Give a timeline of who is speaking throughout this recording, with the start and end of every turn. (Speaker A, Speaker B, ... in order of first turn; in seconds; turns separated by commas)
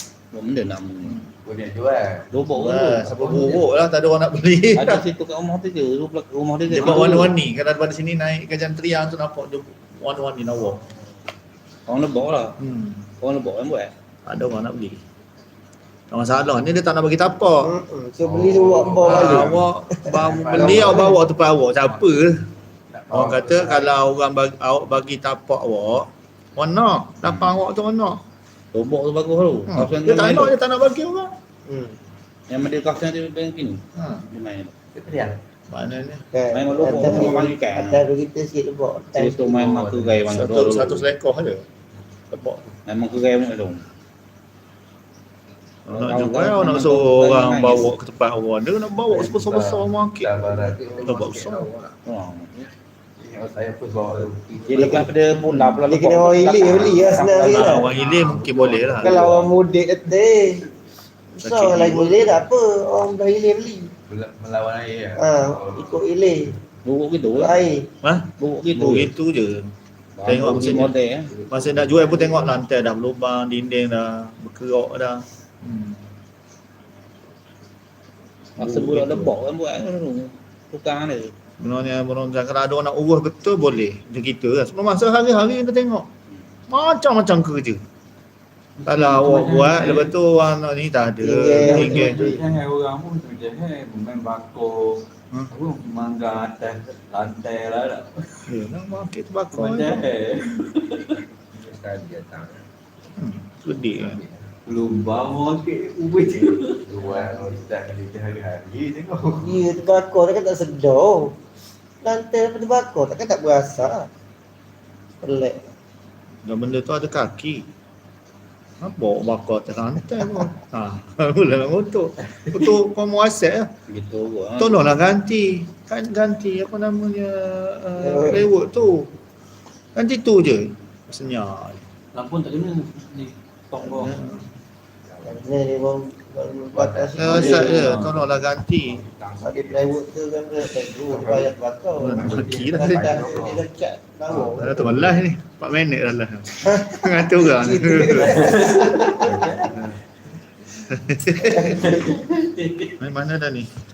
Speaker A: 0.3-1.2, Speaker B: 1.0-1.3, Speaker C: 1.4-2.3, Speaker A: 2.3-3.1, Speaker B: 2.5-5.0, Speaker C: 3.0-3.7, Speaker A: 4.7-7.3, Speaker B: 6.7-10.8, Speaker A: 11.9-12.6, Speaker B: 12.6-13.1, Speaker A: 13.2-13.9, Speaker B: 14.2-15.0, Speaker B: 16.1-17.7, Speaker D: 17.6-19.5, Speaker C: 18.2-21.2, Speaker B: 19.0-22.4, Speaker D: 20.0-21.1, Speaker C: 22.9-23.9, Speaker B: 23.1-28.2, Speaker A: 27.2-27.5, Speaker A: 28.7-30.6, Speaker B: 29.7-31.3, Speaker D: 31.7-32.0, Speaker A: 32.5-34.7, Speaker B: 34.0-34.3, Speaker C: 34.9-35.4, Speaker B: 35.7-36.2, Speaker D: 36.3-39.5, Speaker A: 36.5-38.1, Speaker B: 36.9-37.3, Speaker A: 39.1-41.0, Speaker C: 39.4-40.3, Speaker B: 40.3-41.6, Speaker B: 42.3-42.6, Speaker A: 42.8-43.8, Speaker A: 45.9-47.9, Speaker B: 45.9-50.4, Speaker C: 49.1-51.9, Speaker B: 51.0-51.7, Speaker A: 52.0-52.7, Speaker C: 53.2-55.1, Speaker A: 54.6-57.3, Speaker B: 55.4-55.8, Speaker D: 55.9-57.9, Speaker C: 56.6-59.5, Speaker B: 57.3-59.2, Speaker D: 59.0-60.6, Speaker D: 61.3-63.9, Speaker B: 61.4-62.4, Speaker C: 64.1-66.3, Speaker D: 65.2-66.5, Speaker A: 66.8-67.7, Speaker D: 67.3-67.9, Speaker B: 68.0-69.7, Speaker A: 68.4-69.1, Speaker A: 70.2-71.3, Speaker B: 70.2-70.9, Speaker C: 70.4-72.4, Speaker B: 71.5-76.0, Speaker A: 78.6-81.3, Speaker B: 78.6-79.3, Speaker B: 81.6-86.1, Speaker B: 86.7-87.8, Speaker B: 88.8-92.2, Speaker E: 88.9-90.0, Speaker D: 91.2-92.5, Speaker C: 91.7-92.4, Speaker E: 91.8-95.0, Speaker E: 95.6-97.8, Speaker B: 98.5-100.0, Speaker E: 99.5-99.9, Speaker C: 101.5-102.6, Speaker B: 103.2-104.2, Speaker C: 103.9-105.0, Speaker E: 104.7-106.8, Speaker C: 106.4-109.8, Speaker D: 109.4-111.3, Speaker D: 112.0-114.1, Speaker D: 115.2-115.6, Speaker B: 116.4-117.7, Speaker B: 118.8-123.7, Speaker A: 123.9-124.8, Speaker B: 124.6-129.1, Speaker D: 128.0-128.4, Speaker B: 129.9-131.8, Speaker A: 132.1-134.2, Speaker B: 133.8-134.4, Speaker C: 135.1-135.4, Speaker D: 135.2-137.9, Speaker C: 136.7-139.9, Speaker B: 137.2-139.0, Speaker D: 139.4-145.0, Speaker C: 141.0-141.5, Speaker B: 142.0-143.3, Speaker C: 142.2-143.6, Speaker C: 144.4-145.2, Speaker B: 144.4-148.6, Speaker D: 146.6-149.7, Speaker C: 149.2-149.8, Speaker B: 150.8-152.1, Speaker D: 151.5-152.2, Speaker B: 152.9-153.7